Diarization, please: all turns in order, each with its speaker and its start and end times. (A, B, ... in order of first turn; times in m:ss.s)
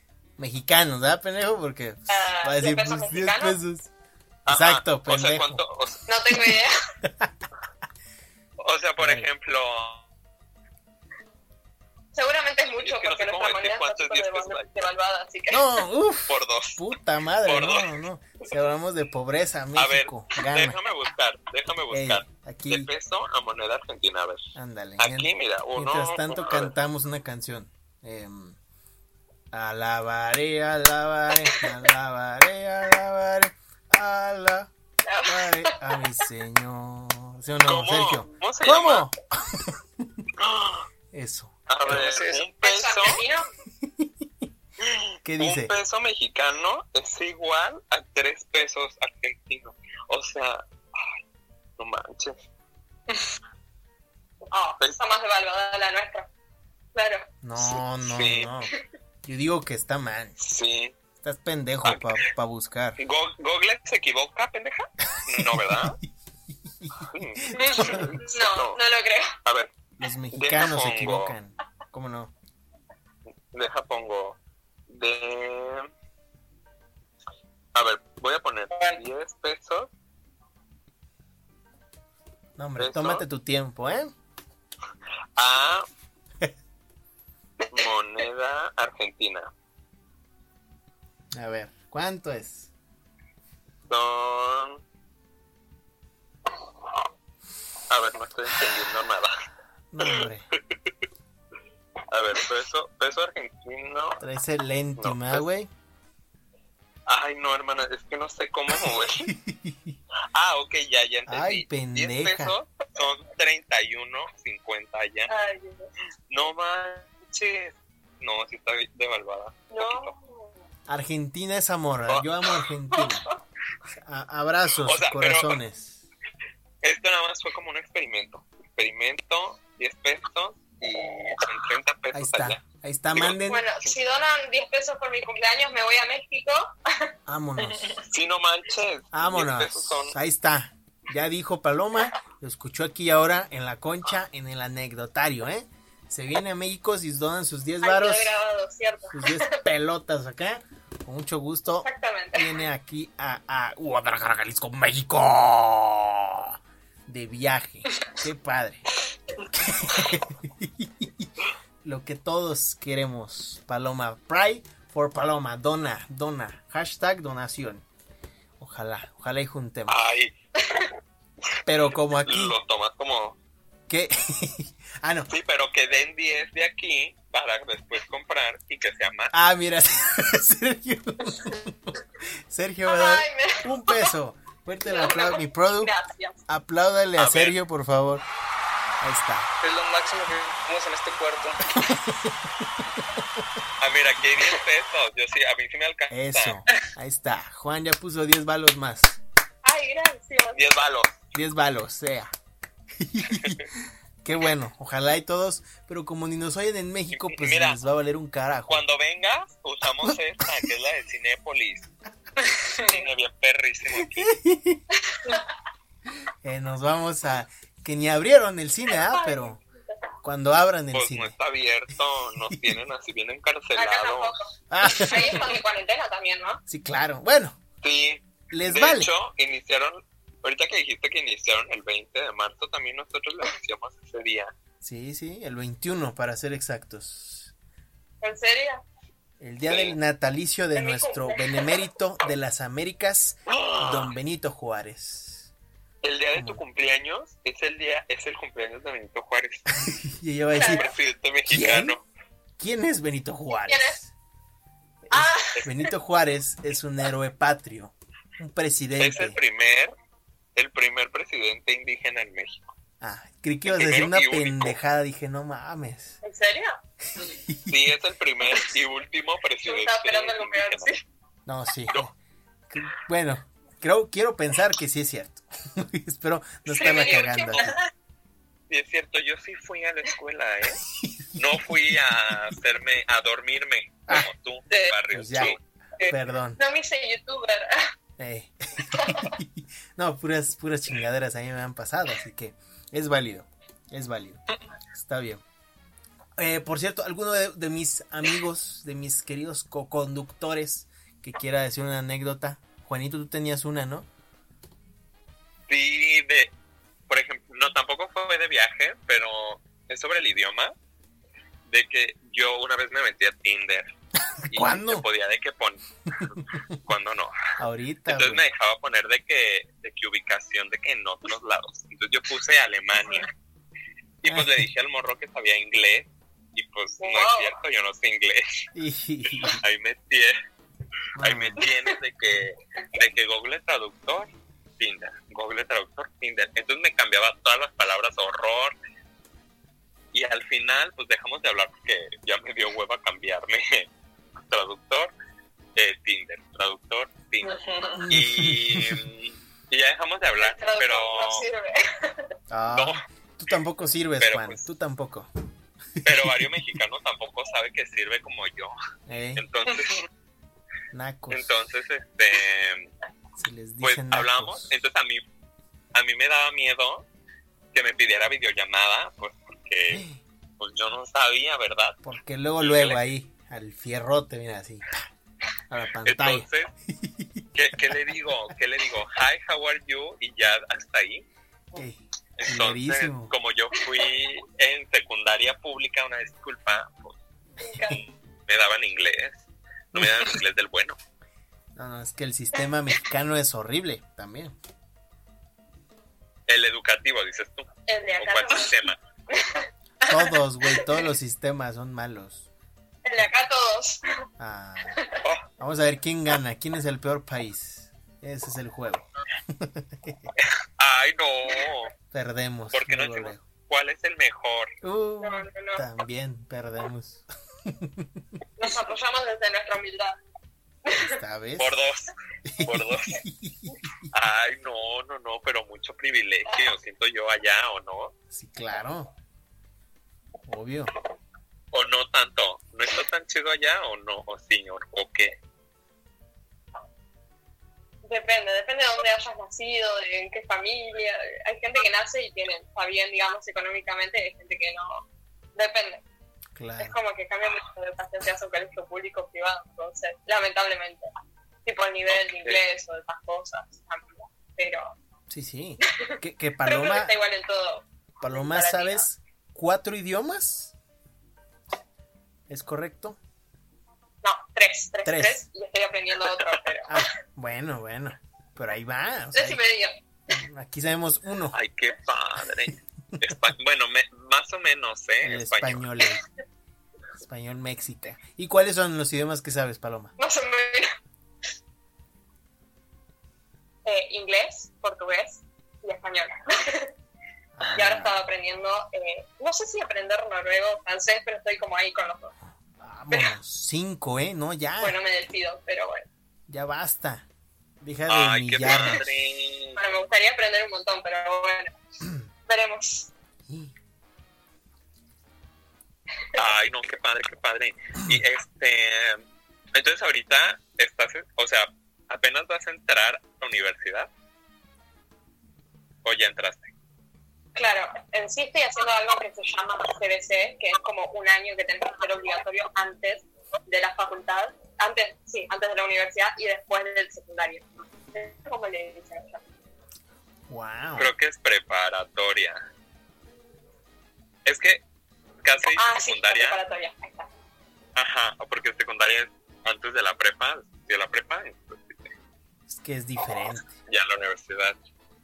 0:00.4-0:03.9 A
0:02.1-0:03.6 B
0:04.5-0:06.0 C
0:04.5-0:05.6 A
0:06.1-0:06.8 B
0:07.0-0:07.3 A
0:08.6-0:10.0 C
0:09.0-0:09.3 A
0:12.1-0:15.7 B
0:12.8-0:14.8 C
0:15.5-0:20.8 A
0:16.3-0:16.8 C
0:17.4-0:17.9 C
0:19.8-0:26.7 C
0:21.9-0:22.9 A
0:24.6-0:28.6 A
0:29.5-0:34.7 A
0:35.0-0:35.9 B
0:35.3-0:40.2 A
0:37.7-0:39.1 C
0:40.4-0:40.9 C
0:41.1-0:41.6 A
0:41.7-0:43.2 C
0:41.8-0:42.4 D
0:42.6-0:43.5 B
0:43.8-0:44.1 A
0:44.8-0:51.1 C
0:45.2-0:45.7 A
0:51.8-0:52.4 C
0:54.5-0:56.3 B
0:57.0-0:57.3 B
0:57.4-0:58.7 A
0:58.0-0:58.5 C
0:59.2-1:00.4 A
1:00.4-1:01.0 C
1:01.2-1:03.0 A
1:01.8-1:02.2 C
1:03.0-1:06.0 C
1:05.3-1:06.1 A
1:06.7-1:08.1 A
1:07.1-1:08.8 C
1:07.6-1:08.0 D
1:08.0-1:09.4 B
1:09.4-1:09.7 C
1:10.0-1:12.3 A
1:10.3-1:11.4 C
1:13.5-1:14.4 C
1:14.9-1:15.9 C
1:17.8-1:19.9 C
1:18.7-1:19.0 D
1:22.6-1:24.1 A
1:22.8-1:23.2 C
1:25.4-1:25.9 C
1:27.7-1:29.5 C
1:31.3-1:32.7 A
1:33.9-1:34.8 C
1:37.9-1:39.3 C
1:39.9-1:40.5 A
1:40.0-1:40.3 C
1:42.1-1:44.2 C
1:44.2-1:45.7 A
1:45.0-1:45.4 C
1:47.1-1:49.3 C
1:49.2-1:50.0 A
1:50.3-1:55.3 C
1:51.3-1:52.6 A
1:55.3-1:55.9 B
1:56.3-2:00.1 C
1:59.7-2:00.6 B
2:00.9-2:03.2 A
2:02.9-2:03.4 B
2:04.0-2:06.0 A
2:04.8-2:05.6 C
2:06.8-2:13.9 C
2:12.1-2:13.6 A
2:13.5-2:17.1 B
2:17.3-2:18.0 A
2:18.1-2:20.2 C
2:19.1-2:28.4 A
2:27.8-2:29.6 B
2:29.1-2:38.8 A
2:31.8-2:32.5 B
2:39.5-2:41.3 A
2:41.8-2:47.8 A
2:48.6-2:50.0 A
2:49.9-2:50.3 C
2:51.7-2:52.6 A
2:52.2-2:53.4 C
2:53.9-2:55.3 A
2:55.3-2:59.3 C
2:59.3-3:05.9 A
3:02.9-3:04.1 B
3:04.8-3:06.4 B
3:06.5-3:08.2 A
3:07.2-3:07.6 C
3:09.0-3:09.5 A
3:09.6-3:11.6 D
3:11.7-3:13.4 A
3:13.8-3:16.6 C
3:16.1-3:19.2 A
3:19.6-3:20.6 B
3:20.6-3:21.2 C
3:21.3-3:22.3 A
3:23.0-3:28.8 A
3:23.3-3:23.6 C
3:27.1-3:27.8 C
3:28.7-3:31.9 C
3:32.6-3:32.9 D
3:32.8-3:34.4 C
3:34.0-3:34.8 A
3:35.1-3:35.4 B
3:36.4-3:39.6 A
3:38.9-3:40.0 B
3:40.2-3:41.4 A
3:40.9-3:44.4 C
3:42.5-3:42.8 A
3:43.8-3:46.6 B
3:44.7-3:45.5 A
3:46.7-3:47.6 A
3:47.8-3:54.5 C
3:48.5-3:49.1 A
3:54.8-3:57.5 A
3:58.2-3:58.8 B
3:59.4-4:05.5 A
3:59.7-3:59.9 C
4:00.8-4:01.8 B
4:03.5-4:04.1 C
4:06.0-4:09.7 C
4:06.4-4:06.6 A
4:09.8-4:10.9 A
4:10.5-4:10.9 B
4:10.6-4:12.0 C
4:11.5-4:12.0 A
4:12.6-4:14.1 A
4:13.7-4:14.0 B
4:15.1-4:19.4 A
4:15.1-4:15.8 B
4:19.0-4:19.9 C
4:20.6-4:22.7 C
4:23.0-4:26.2 A
4:23.7-4:24.8 C
4:26.2-4:26.8 B
4:27.2-4:27.9 A
4:27.7-4:30.9 C
4:29.6-4:31.0 B
4:31.5-4:32.2 A
4:32.7-4:37.7 A
4:36.7-4:37.9 B
4:36.7-4:37.7 C
4:38.7-4:40.8 C
4:41.0-4:41.3 A
4:41.4-4:45.6 C
4:45.1-4:46.6 A
4:46.6-4:47.9 B
4:48.2-4:54.4 A
4:48.9-4:49.3 B
4:54.9-4:55.4 A
4:56.4-5:04.1 A
5:05.7-5:06.5 C
5:07.1-5:10.7 C
5:11.7-5:13.9 C
5:14.4-5:15.0 A
5:14.5-5:17.4 C
5:17.6-5:18.4 A
5:18.1-5:23.3 C
5:24.2-5:28.6 C
5:24.3-5:24.6 A
5:27.0-5:27.6 B
5:28.8-5:29.6 A
5:29.4-5:30.4 C
5:31.2-5:31.6 A
5:31.2-5:38.8 C
5:40.1-5:43.9 C
5:44.5-5:45.1 C
5:45.8-5:51.5 C
5:47.4-5:48.0 D
5:48.0-5:49.1 A
5:50.4-5:52.3 B
5:52.5-5:55.3 A
5:52.7-5:53.0 C
5:54.2-5:54.6 C
5:56.0-5:56.5 A
5:56.0-5:58.7 C
5:59.1-5:59.4 A
5:59.4-6:00.1 C
6:00.9-6:01.5 A
6:01.3-6:02.9 C
6:03.4-6:04.8 A
6:03.8-6:05.2 C
6:05.9-6:07.0 C
6:07.7-6:10.0 C
6:09.9-6:10.2 A
6:10.6-6:12.0 C
6:12.0-6:15.1 A
6:12.6-6:13.0 C
6:15.7-6:17.4 A
6:16.0-6:16.7 C
6:17.6-6:21.2 C
6:21.7-6:23.3 A
6:22.4-6:27.2 C
6:27.6-6:28.0 B
6:27.9-6:31.0 C
6:31.8-6:34.6 A
6:36.5-6:39.0 C
6:37.9-6:38.7 B
6:39.3-6:41.0 B
6:40.1-6:42.5 A
6:43.0-6:44.0 B
6:44.4-6:45.0 A
6:45.6-6:50.3 A
6:50.8-6:51.9 C
6:52.1-6:53.4 A
6:52.7-6:54.8 C
6:54.8-6:58.2 A
6:55.2-6:55.9 B
6:58.6-7:00.2 B
7:00.9-7:01.2 B
7:00.9-7:01.7 A
7:01.6-7:02.1 C
7:02.5-7:04.1 A
7:02.6-7:03.2 C
7:04.1-7:08.1 C
7:08.3-7:09.1 A
7:10.5-7:10.9 A
7:11.7-7:15.4 C
7:18.0-7:26.0 B
7:26.6-7:27.0 A
7:26.8-7:31.1 B
7:31.6-7:35.0 B
7:32.1-7:32.6 C
7:35.3-7:37.1 A
7:35.8-7:39.1 B
7:38.2-7:40.7 A
7:42.5-7:43.2 A
7:44.2-7:47.1 B
7:45.0-7:45.4 A
7:46.9-7:49.6 A
7:49.3-7:49.9 B
7:50.3-7:51.6 A
7:51.5-7:55.8 C
7:55.2-7:56.2 A
7:57.2-8:00.2 A
8:00.2-8:00.9 B
8:03.8-8:06.9 B
8:07.6-8:08.2 A
8:07.8-8:12.3 B
8:12.8-8:15.0 A
8:14.8-8:16.0 B
8:16.5-8:17.3 A
8:17.8-8:19.1 A
8:18.1-8:19.8 C
8:18.6-8:19.0 B
8:19.8-8:21.8 B
8:22.5-8:23.1 B
8:23.5-8:23.7 A
8:26.4-8:29.2 C
8:29.7-8:34.1 C
8:36.0-8:36.7 C
8:37.6-8:49.4 B
8:50.5-8:51.1 A
8:51.0-8:52.6 C
8:54.5-8:54.8 C
8:55.4-8:56.6 C
8:55.8-8:57.3 B
8:58.0-9:02.1 C
9:02.7-9:03.8 A
9:03.9-9:04.8 C